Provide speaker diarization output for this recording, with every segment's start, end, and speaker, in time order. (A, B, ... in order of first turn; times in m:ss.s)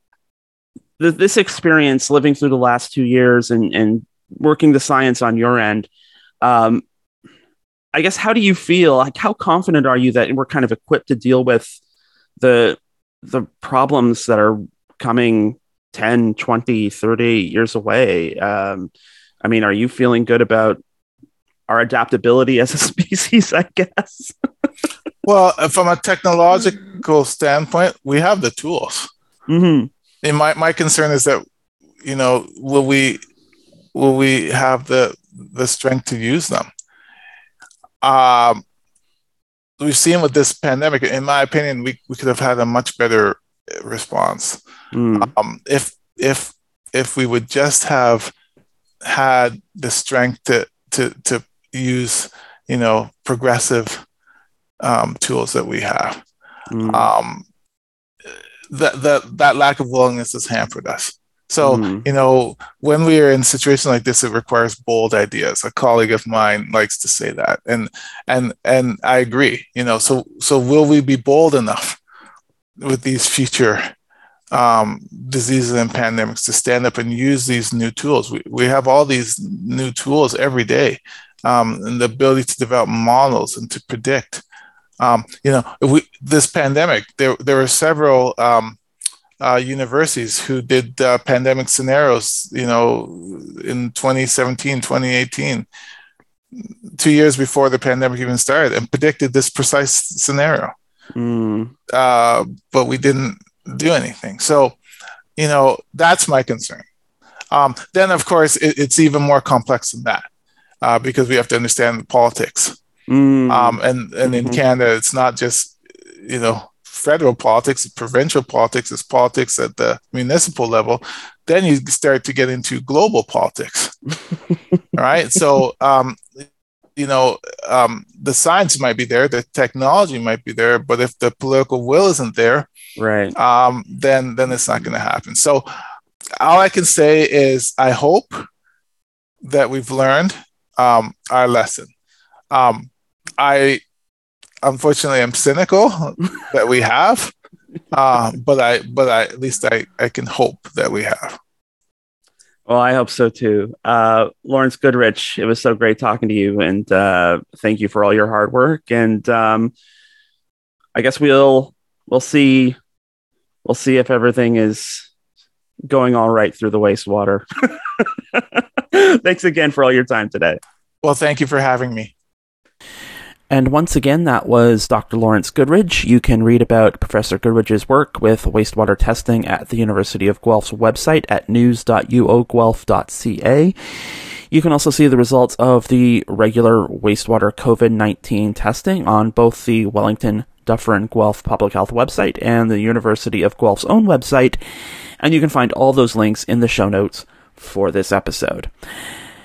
0:01.0-0:05.9 A
0:06.4-0:06.8 A
0:07.9-0:11.8 A
0:12.4-0:18.9 A
0:19.4-0:20.8 A
0:21.7-0:24.3 A
0:25.2-0:29.1 B
0:29.5-0:29.9 A
0:30.2-0:31.4 B
0:32.0-0:33.2 B
0:33.9-0:36.7 B
0:38.0-0:38.6 B
0:39.8-0:44.6 B
0:44.9-0:45.3 A
0:45.2-0:48.3 B
0:49.0-0:54.0 B
0:54.8-0:56.2 B
0:56.7-0:57.1 A
0:56.9-0:57.4 B
0:58.7-1:12.0 B
1:01.6-1:02.0 A
1:12.8-1:13.8 B
1:14.5-1:24.4 B
1:25.0-1:28.8 B
1:29.4-1:35.7 B
1:36.5-1:40.7 B
1:41.1-1:41.7 A
1:41.9-1:44.8 B
1:45.4-1:46.8 B
1:47.5-1:50.2 B
1:50.8-1:52.8 B
1:53.1-1:54.6 A
1:53.5-2:04.1 B
2:04.9-2:12.7 B
2:13.0-2:13.3 A
2:13.4-2:15.6 B
2:16.4-2:18.5 B
2:19.4-2:21.9 B
2:22.5-2:23.8 B
2:24.6-2:27.3 B
2:27.9-2:31.4 B
2:32.6-2:39.7 A
2:40.9-2:42.8 A
2:43.6-2:45.1 A
2:45.9-2:50.6 A
2:51.0-2:52.1 B
2:53.5-3:03.7 A
3:04.5-3:14.6 A
3:15.2-3:18.7 A